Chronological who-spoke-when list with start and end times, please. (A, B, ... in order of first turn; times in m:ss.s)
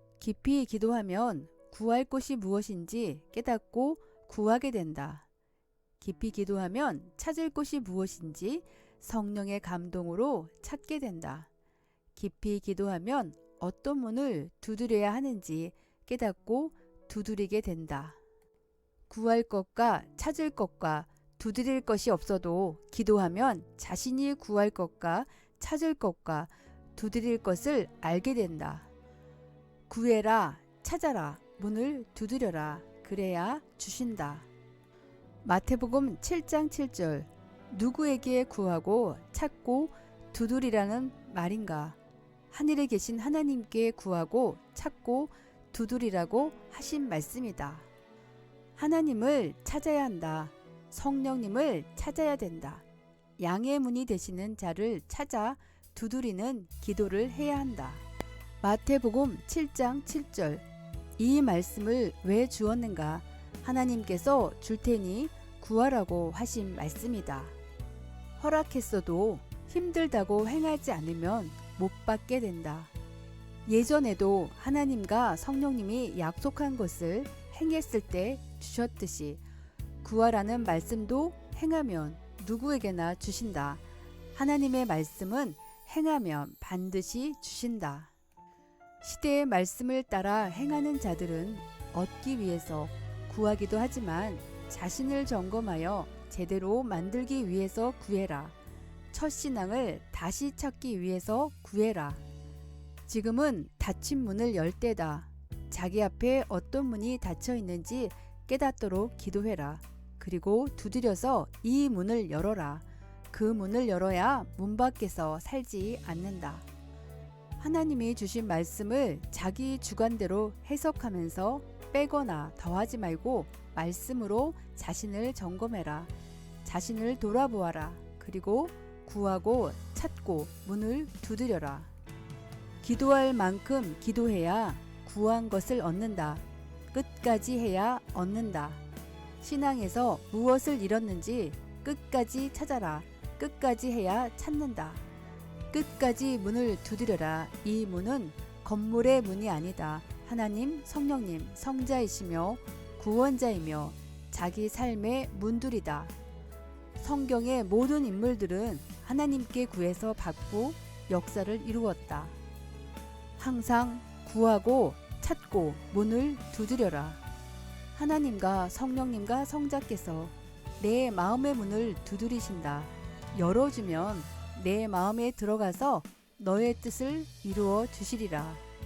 0:00.2-0:05.2 A
0:06.0-0:11.5 A
0:12.1-0:18.2 A
0:19.1-0:28.9 A
0:29.9-0:34.5 A
0:35.4-0:42.0 A
0:42.5-0:47.9 A
0:48.8-0:52.8 A
0:53.4-0:58.0 A
0:58.6-1:00.6 A
1:01.2-1:07.6 A
1:08.4-1:12.9 A
1:13.6-1:19.4 A
1:20.0-1:23.8 A
1:24.3-1:28.1 A
1:29.0-1:38.5 A
1:39.1-1:42.2 A
1:43.0-1:56.6 A
1:57.6-2:06.1 A
2:06.6-2:11.9 A
2:12.8-2:18.8 A
2:19.4-2:25.0 A
2:25.7-2:36.1 A
2:37.0-2:42.4 A
2:43.4-2:47.2 A
2:48.0-2:58.6 A